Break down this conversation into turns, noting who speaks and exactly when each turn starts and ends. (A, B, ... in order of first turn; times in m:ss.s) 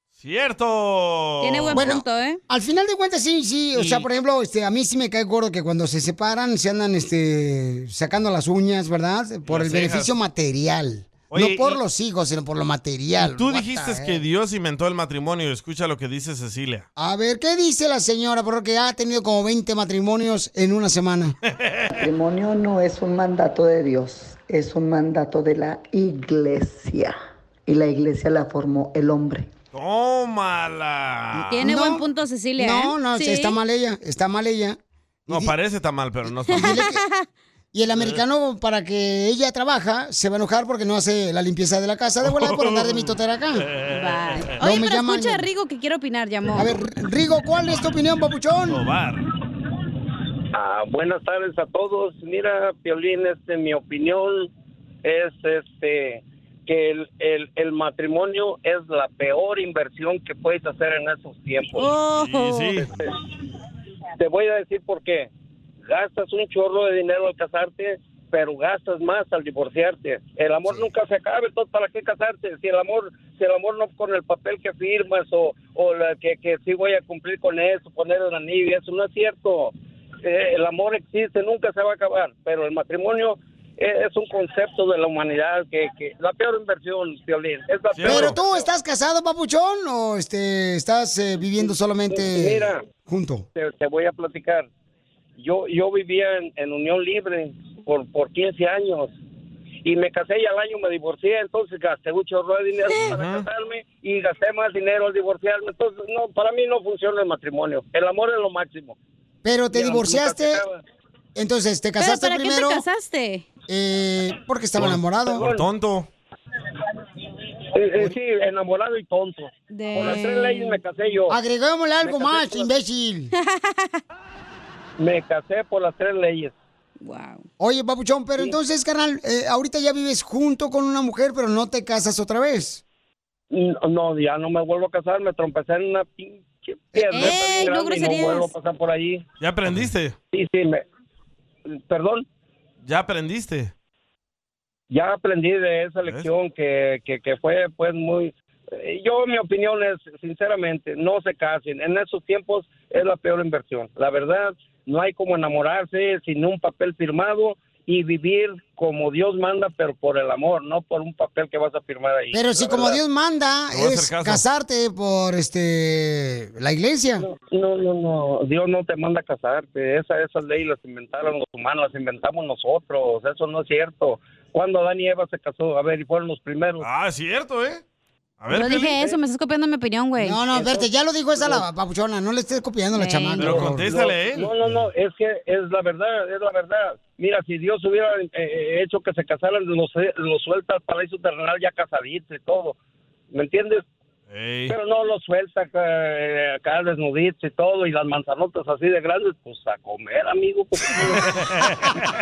0:00.2-0:01.9 A
0:01.4-0:02.4 B
0:01.7-0:14.2 C
0:03.7-0:04.1 A
0:09.4-0:10.1 A
0:11.3-0:11.8 A
0:13.2-0:16.8 A
0:17.0-0:21.3 C
0:21.5-0:21.9 A
0:21.9-0:27.2 D
0:27.7-0:29.5 D
0:29.7-0:31.6 A
0:31.3-0:32.0 C
0:31.5-0:33.6 B
0:32.6-0:35.5 C
0:35.3-0:36.8 A
0:36.5-0:37.0 C
0:36.6-0:37.3 B
0:37.7-0:43.7 C
0:38.0-0:38.2 A
0:42.2-0:44.4 A
0:43.9-0:46.7 B
0:44.6-0:45.4 C
0:46.6-0:48.8 C
0:48.7-0:49.3 A
0:50.5-0:54.5 E
0:55.0-1:01.9 E
1:01.8-1:02.8 B
1:02.1-1:02.9 A
1:02.9-1:03.1 E
1:04.2-1:05.3 E
1:05.8-1:28.6 E
1:27.9-1:28.4 A
1:28.0-1:33.5 C
1:31.6-1:32.8 E
1:33.6-1:34.7 E
1:35.4-1:39.1 E
1:39.8-1:49.0 E
1:43.0-1:43.4 A
1:49.4-1:50.6 C
1:49.7-1:50.8 E
1:51.3-1:52.8 C
1:52.0-1:53.4 B
1:53.7-1:55.4 C
1:54.8-1:56.1 A
1:55.3-1:55.6 E
1:57.7-2:01.4 E
1:59.7-2:00.8 B
2:01.3-2:03.3 C
2:02.0-2:02.7 E
2:03.4-2:04.0 B
2:05.0-2:06.5 E
2:07.0-2:07.4 B
2:07.6-2:12.8 C
2:13.5-2:19.2 E
2:17.1-2:18.5 B
2:19.4-2:20.1 A
2:20.3-2:20.8 E
2:21.7-2:22.2 E
2:22.8-2:23.7 A
2:24.9-2:43.0 E
2:26.0-2:26.3 A
2:42.3-2:47.2 C
2:43.7-2:44.4 A
2:47.4-2:56.9 E
2:56.8-2:57.8 A
2:58.4-2:59.0 A
2:58.5-3:00.4 B
3:00.2-3:03.9 C
3:00.6-3:01.6 E
3:03.0-3:03.7 B
3:03.4-3:04.5 A
3:03.9-3:12.8 E
3:13.3-3:13.8 E
3:14.3-3:14.7 A
3:14.7-3:21.2 E
3:21.4-3:21.9 A